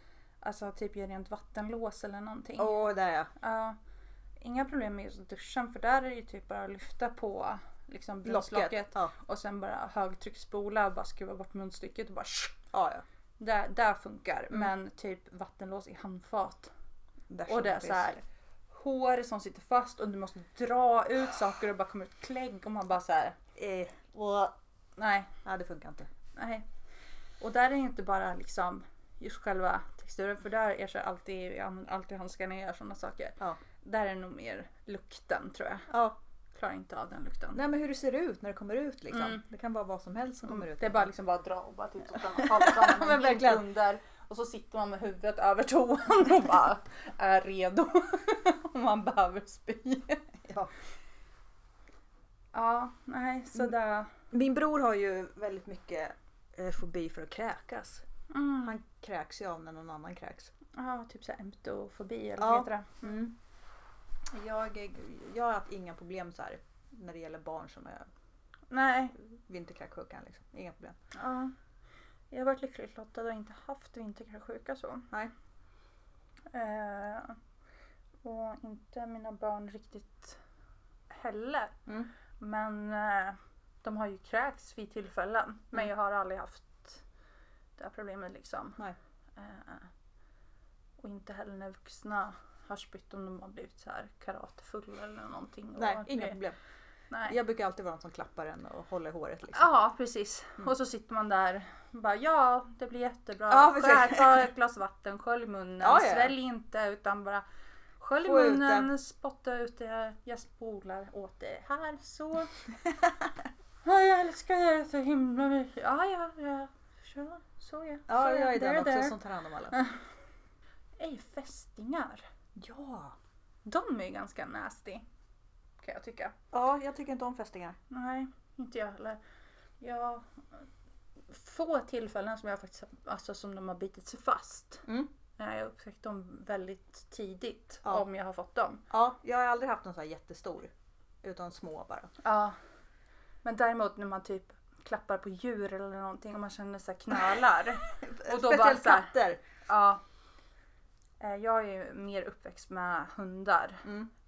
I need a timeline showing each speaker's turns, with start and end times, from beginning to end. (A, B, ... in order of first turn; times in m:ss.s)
0:00.4-0:02.7 A
0:02.6-0:03.3 B
0:03.4-0:03.8 A
0:04.4-0:12.6 A
0:08.2-0:09.1 B
0:12.7-0:13.0 B
0:13.4-0:16.7 A
0:17.3-0:18.2 B
0:17.5-0:18.2 A
0:18.7-0:23.4 A
0:23.6-0:24.5 B
0:25.0-0:25.3 A
0:25.4-0:26.1 B
0:26.4-0:26.6 A
0:27.4-0:35.9 A
0:35.9-0:36.2 B
0:36.5-0:37.6 A
0:37.5-0:41.1 B
0:39.1-0:39.4 A
0:40.4-0:50.3 A
0:42.3-0:43.6 B
0:50.4-0:50.7 B
0:52.5-0:54.1 A
0:54.3-0:58.0 B
0:58.3-0:58.7 A
0:58.6-1:00.5 B
1:00.7-1:03.1 A
1:02.4-1:03.3 B
1:04.3-1:08.1 B
1:08.7-1:09.2 A
1:09.2-1:11.0 B
1:11.1-1:11.5 A
1:12.3-1:15.1 A
1:16.5-1:17.4 A
1:18.2-1:20.4 A
1:21.1-1:21.8 A
1:22.4-1:27.0 A
1:27.8-1:28.8 A
1:29.4-1:29.9 A
1:31.0-1:36.4 A
1:35.8-1:36.6 B
1:37.1-1:37.4 A
1:37.3-1:39.7 B
1:39.5-1:47.4 A
1:43.5-1:44.5 B
1:45.8-1:46.3 B
1:48.0-1:52.5 A
1:48.2-1:48.9 B
1:53.8-1:59.2 A
1:58.1-1:59.8 B
1:59.7-2:00.0 A
2:01.0-2:02.2 A
2:02.6-2:03.2 B
2:03.6-2:05.0 A
2:05.8-2:06.3 A
2:06.5-2:07.8 B
2:07.9-2:09.2 A
2:09.8-2:10.6 A
2:11.3-2:14.8 A
2:15.4-2:18.8 A
2:18.9-2:20.7 B
2:21.2-2:22.1 B
2:22.2-2:22.6 A
2:23.4-2:30.0 A
2:28.0-2:29.4 B
2:31.2-2:33.8 A
2:33.8-2:34.1 B